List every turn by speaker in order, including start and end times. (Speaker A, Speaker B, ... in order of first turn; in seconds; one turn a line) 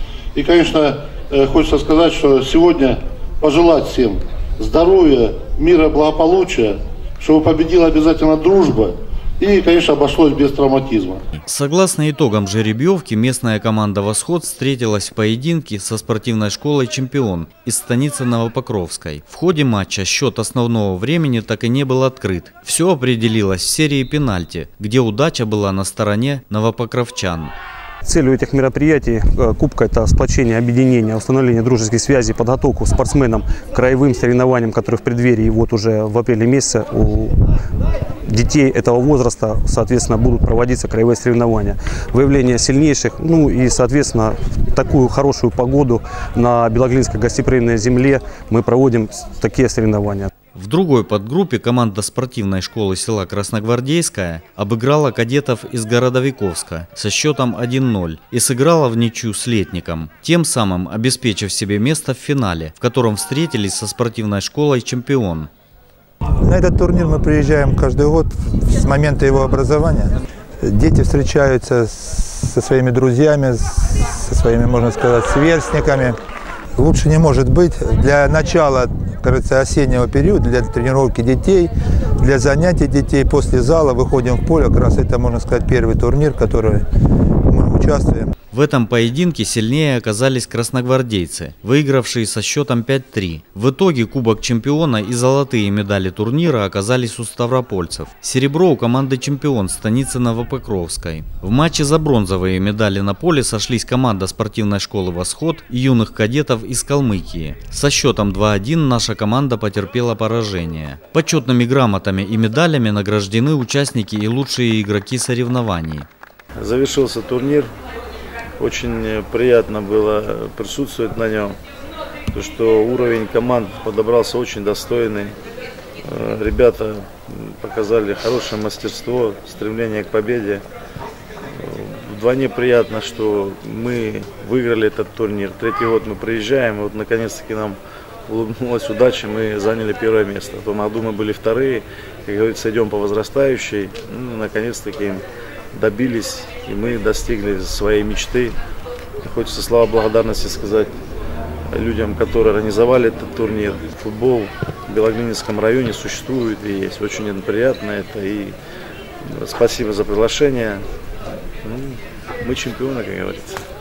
Speaker A: 0.3-11.2
Speaker B: 11.4-27.5
Speaker C: 28.0-37.4
Speaker C: 38.2-50.3
Speaker B: 50.5-65.5
Speaker D: 66.4-76.2
Speaker D: 76.8-86.8
Speaker D: 87.5-88.3
Speaker B: 88.5-116.1
Speaker E: 116.6-117.7
Speaker E: 118.6-121.6
Speaker E: 122.3-125.3
Speaker E: 126.0-130.6
Speaker E: 131.4-145.2
Speaker E: 145.7-148.6
Speaker E: 149.2-150.9
Speaker E: 151.7-158.5
Speaker E: 159.2-160.8
Speaker E: 161.6-163.6